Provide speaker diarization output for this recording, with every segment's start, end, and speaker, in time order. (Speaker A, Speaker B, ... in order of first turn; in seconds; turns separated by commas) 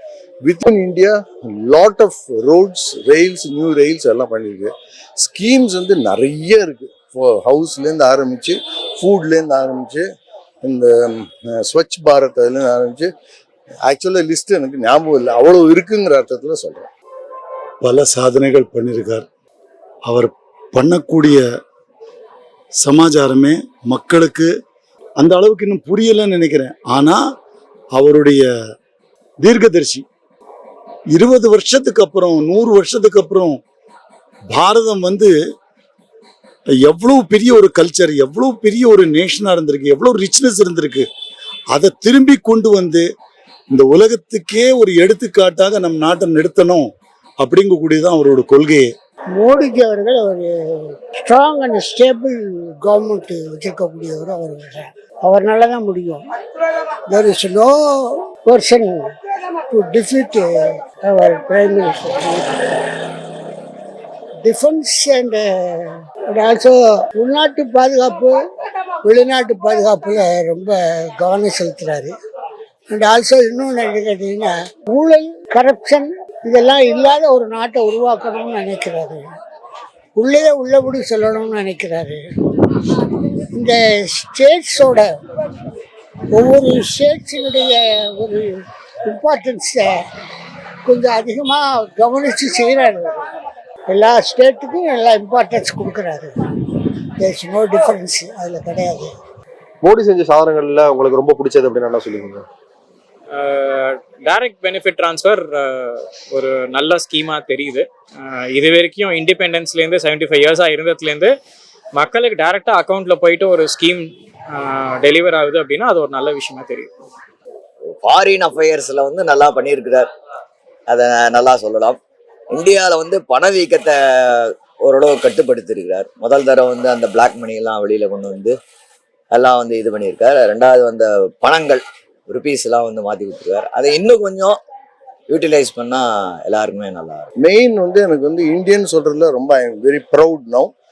Speaker A: 0.4-10.0, Speaker A: 10.6-13.1, Speaker A: 13.9-16.9, Speaker B: 17.8-19.2, Speaker B: 20.1-21.4, Speaker B: 22.8-24.5, Speaker B: 25.2-27.2, Speaker B: 27.9-28.4, Speaker B: 29.4-30.0, Speaker B: 31.1-33.6, Speaker B: 34.5-35.3, Speaker B: 36.9-41.0, Speaker B: 41.7-43.0, Speaker B: 43.7-46.9, Speaker B: 47.4-48.9, Speaker C: 49.4-50.5, Speaker C: 51.2-56.2, Speaker C: 57.1-59.1, Speaker C: 59.7-60.5, Speaker C: 61.0-62.8, Speaker C: 64.4-65.4, Speaker C: 66.3-68.3, Speaker C: 69.0-72.1, Speaker C: 72.9-79.3, Speaker C: 80.2-82.2, Speaker C: 83.5-85.1, Speaker C: 86.3-89.9, Speaker C: 90.8-93.1, Speaker C: 93.9-96.3, Speaker C: 97.2-99.1, Speaker D: 99.8-102.5, Speaker E: 103.3-111.3, Speaker E: 112.0-116.9, Speaker F: 117.9-120.1, Speaker F: 120.9-122.0, Speaker F: 122.5-128.5, Speaker F: 129.3-134.6, Speaker F: 135.3-137.2, Speaker A: 137.4-140.7